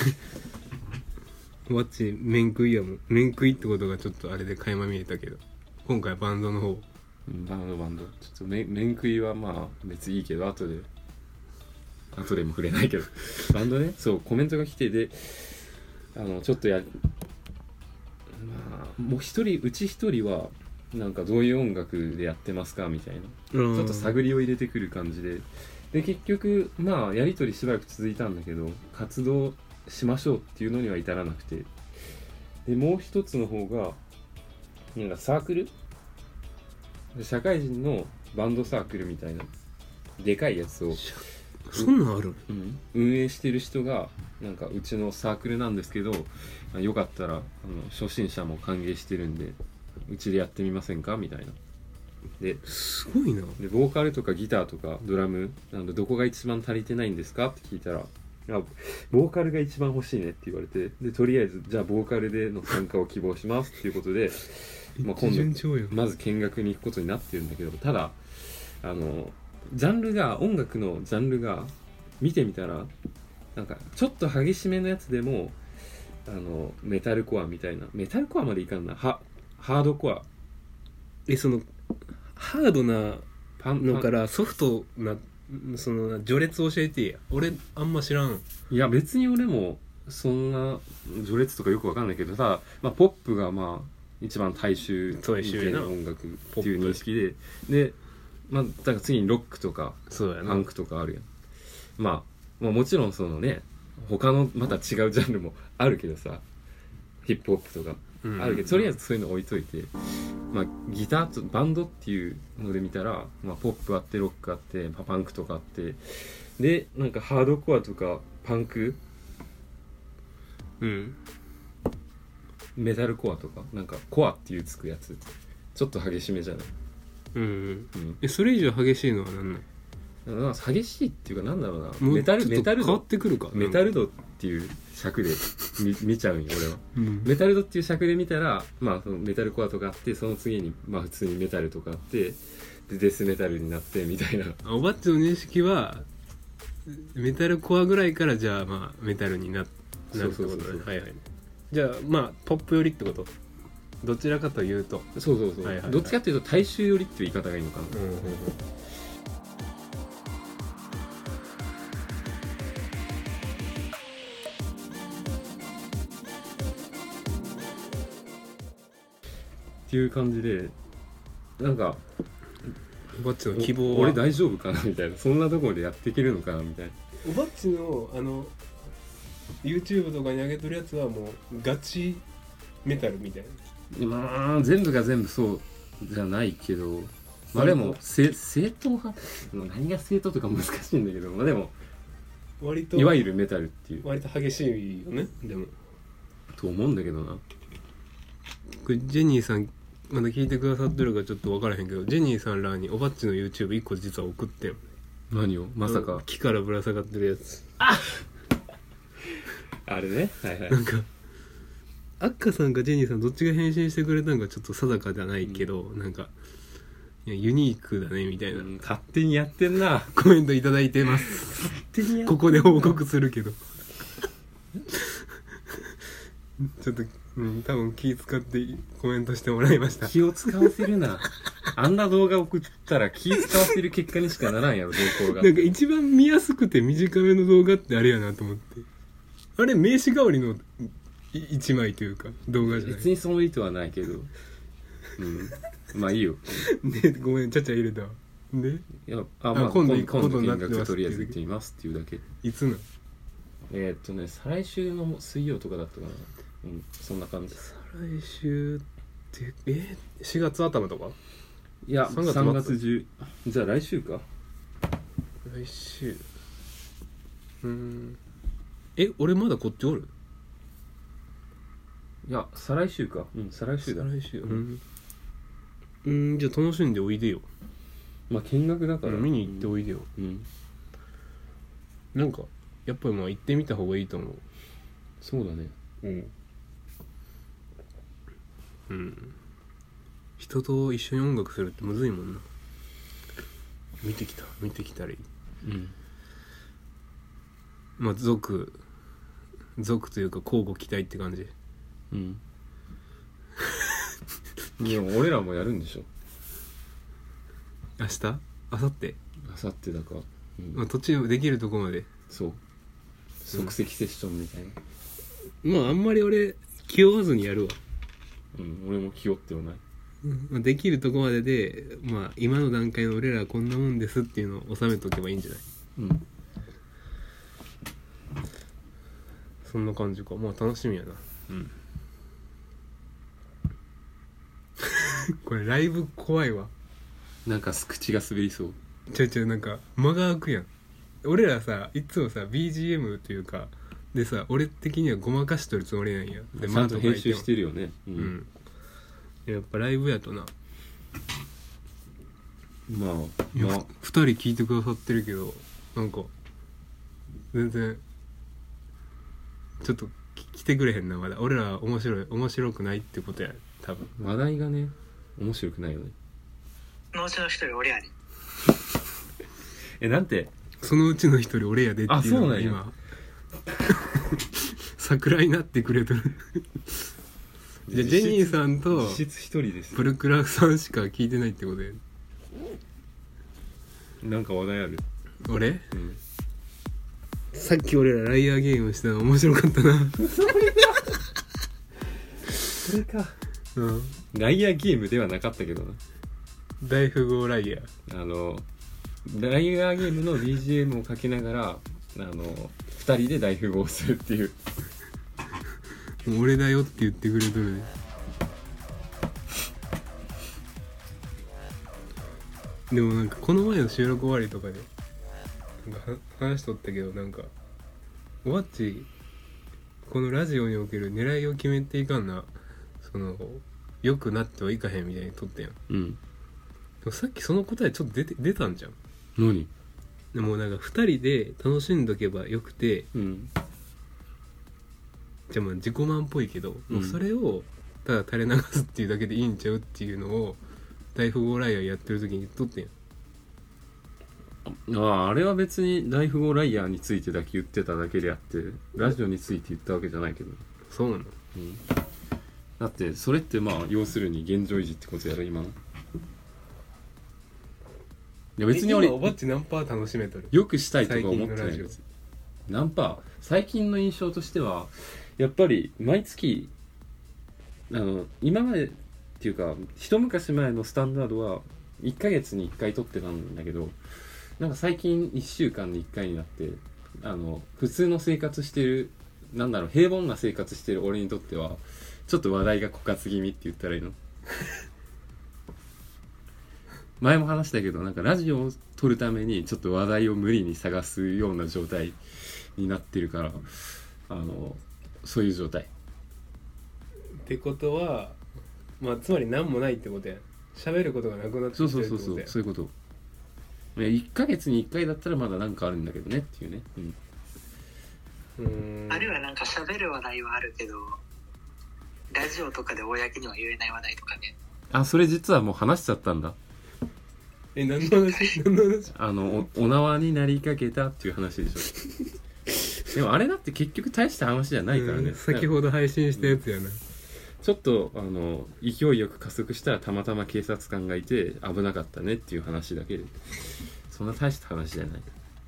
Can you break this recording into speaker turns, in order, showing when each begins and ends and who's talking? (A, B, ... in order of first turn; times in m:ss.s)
0:01.7-0:06.8 A
0:07.3-0:10.9 B
0:12.1-0:17.0 B
0:18.3-0:31.7 B
0:23.5-0:24.2 A
0:32.6-0:34.0 B
0:34.9-0:35.7 B
0:37.1-0:39.5 B
0:40.2-0:41.1 B
0:40.9-0:42.4 A
0:42.5-0:51.6 B
0:52.4-0:52.6 B
0:52.6-0:53.6 A
0:53.6-1:12.9 B
1:05.0-1:06.0 A
1:13.5-1:15.6 B
1:16.2-1:20.3 B
1:21.3-1:21.7 A
1:22.3-1:23.2 A
1:23.6-1:24.1 B
1:23.8-1:28.4 A
1:28.7-1:38.0 B
1:35.2-1:35.9 A
1:36.5-1:37.0 A
1:38.5-1:41.3 B
1:40.1-1:40.7 A
1:42.0-1:46.4 B
1:47.2-1:59.0 B
1:48.2-1:49.0 A
2:00.8-2:01.2 A
2:02.7-2:05.2 B
2:05.7-2:06.7 B
2:07.3-2:09.6 A
2:07.9-2:08.2 B
2:10.2-2:24.6 B
2:12.0-2:13.9 A
2:16.9-2:17.3 A
2:24.6-2:26.1 A
2:26.8-2:33.3 A
2:30.1-2:30.9 B
2:34.0-2:36.2 A
2:35.1-2:38.4 B
2:37.9-2:38.6 A
2:49.9-2:50.8 B
2:51.6-2:52.0 B
2:53.1-2:54.2 A
2:53.5-2:57.0 B
2:57.2-2:58.5 A
2:59.6-3:02.2 A
3:02.8-3:03.6 A
3:03.9-3:11.8 B
3:07.5-3:08.0 A
3:12.6-3:13.2 A
3:12.9-3:14.0 B
3:14.0-3:15.7 A
3:16.5-3:17.4 B
3:18.8-3:24.8 A
3:25.3-3:26.2 B
3:25.8-3:27.6 A
3:27.8-3:28.2 B
3:29.4-3:30.8 B
3:30.7-3:31.1 A
3:32.2-3:36.3 A
3:37.2-3:38.7 A
3:38.5-3:40.1 B
3:40.1-3:41.6 A
3:41.1-3:43.0 B
3:42.2-3:43.6 A
3:44.9-3:45.2 A
3:46.6-3:50.7 A
3:50.0-3:55.7 B
3:55.3-3:58.8 A
3:59.6-4:03.1 A
4:02.6-4:04.3 B
4:05.2-4:06.7 B
4:06.6-4:08.9 A
4:09.0-4:12.2 B
4:09.5-4:11.4 A
4:12.4-4:12.8 A
4:13.7-4:17.6 B
4:17.6-4:21.2 A
4:21.8-4:24.3 B
4:22.0-4:22.8 A
4:25.4-4:26.2 A
4:27.6-4:28.2 A
4:29.0-4:30.1 A
4:32.2-4:34.6 B
4:33.8-4:34.8 A
4:36.0-4:37.5 A
4:38.3-4:40.5 B
4:39.0-4:40.1 A
4:42.1-4:44.4 A
4:45.2-4:45.8 B
4:48.9-4:49.3 A
4:50.4-4:52.4 A
4:54.0-4:55.2 A
4:55.6-4:55.9 B
4:58.0-4:58.8 A
4:59.8-5:01.5 A
5:02.1-5:02.4 B
5:04.8-5:06.1 B
5:08.0-5:09.2 A
5:09.4-5:10.8 B
5:10.7-5:12.1 A
5:12.3-5:12.6 B
5:13.4-5:14.8 B
5:15.6-5:17.8 A
5:18.5-5:19.8 B
5:20.2-5:25.6 A
5:26.0-5:26.2 B
5:29.6-5:31.7 A
5:34.8-5:36.7 A
5:37.4-5:38.8 B
5:39.1-5:40.7 A
5:41.2-5:47.5 A
5:46.6-5:48.3 B
5:48.2-5:48.5 A
5:49.4-5:50.5 A
5:52.9-5:53.9 B
5:53.5-5:56.3 A
5:57.5-5:58.0 A
5:59.8-6:04.1 A
6:04.2-6:06.1 B
6:07.1-6:08.1 C
6:10.0-6:10.5 B
6:10.8-6:13.0 A
6:12.1-6:12.8 B
6:14.1-6:17.0 A
6:17.9-6:20.1 B
6:17.9-6:19.2 A
6:19.9-6:22.0 A
6:24.2-6:25.0 B
6:25.4-6:25.9 A
6:25.9-6:26.2 B
6:27.5-6:30.2 A
6:30.2-6:31.2 B
6:32.8-6:33.4 B
6:33.8-6:34.2 A
6:34.3-6:36.0 B
6:36.8-6:37.9 A
6:38.0-6:38.6 B
6:39.2-6:44.6 B
6:46.2-6:47.9 A
6:52.9-6:54.9 A
6:55.8-6:57.5 A
6:58.4-6:59.1 A
7:00.0-7:05.8 A
7:05.9-7:06.2 B
7:07.0-7:09.0 A
7:09.4-7:09.7 B
7:10.3-7:13.1 A
7:13.1-7:13.5 B
7:15.5-7:20.6 A
7:16.9-7:17.2 B
7:21.1-7:22.9 A
7:24.6-7:30.6 B
7:30.9-7:31.3 A
7:31.5-7:31.8 B
7:32.8-7:35.8 B
7:38.6-7:39.3 B
7:38.7-7:42.0 A
7:40.5-7:42.0 B
7:42.7-7:46.7 B
7:47.9-7:54.0 B
7:54.6-8:04.2 B
8:07.2-8:15.9 B
8:17.4-8:18.4 A
8:19.0-8:22.5 A
8:21.7-8:22.9 B
8:24.0-8:27.2 B
8:28.6-8:29.4 A
8:29.1-8:31.2 C
8:32.3-8:34.5 C
8:34.9-8:36.6 B
8:37.7-8:39.1 A
8:39.1-8:42.0 B
8:43.0-8:45.7 B
8:44.9-8:47.0 A
8:46.4-8:46.6 B
8:47.6-8:55.3 B